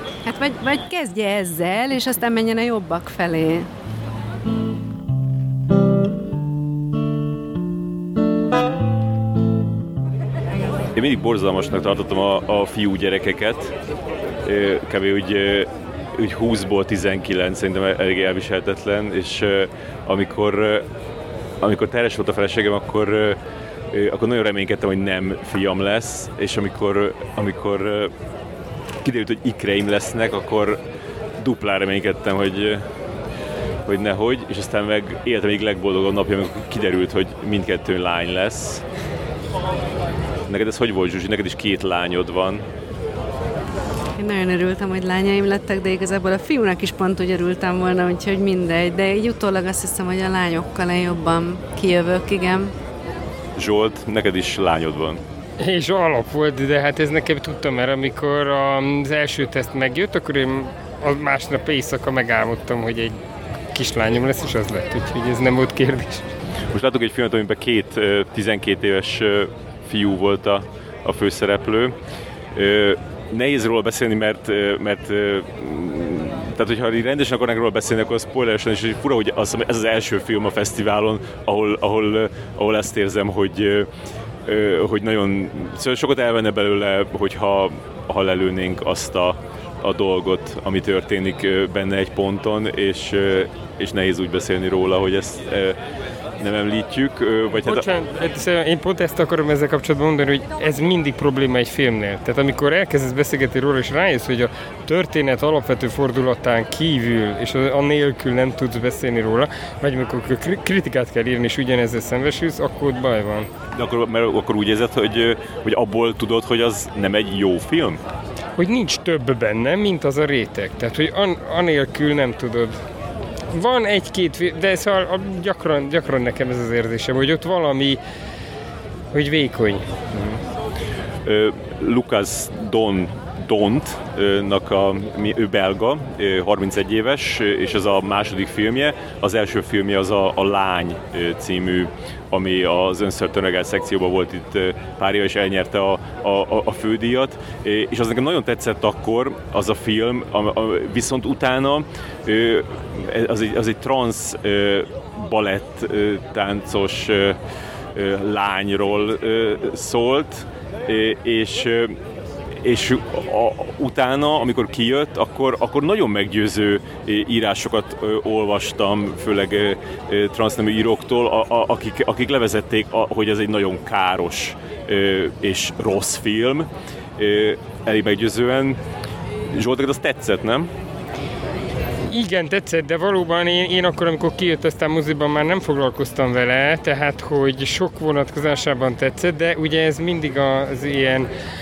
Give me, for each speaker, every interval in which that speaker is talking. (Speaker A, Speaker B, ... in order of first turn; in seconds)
Speaker A: 0.2-3.7, 44.2-52.7
Speaker B: 10.9-13.7, 14.4-20.9, 21.6-23.4, 23.9-28.1, 29.0-30.8, 31.4-32.8, 33.9-38.8, 40.5-42.6, 53.5-55.2, 66.7-71.9, 72.5-83.9, 84.4-95.8, 96.4-97.9, 113.7-118.0, 131.2-157.4, 157.9-162.0, 162.6-178.8, 179.5-180.7
Speaker C: 55.6-63.2, 63.7-66.3, 97.6-113.5, 118.6-122.8, 123.5-128.0, 129.1-129.8, 182.1-191.3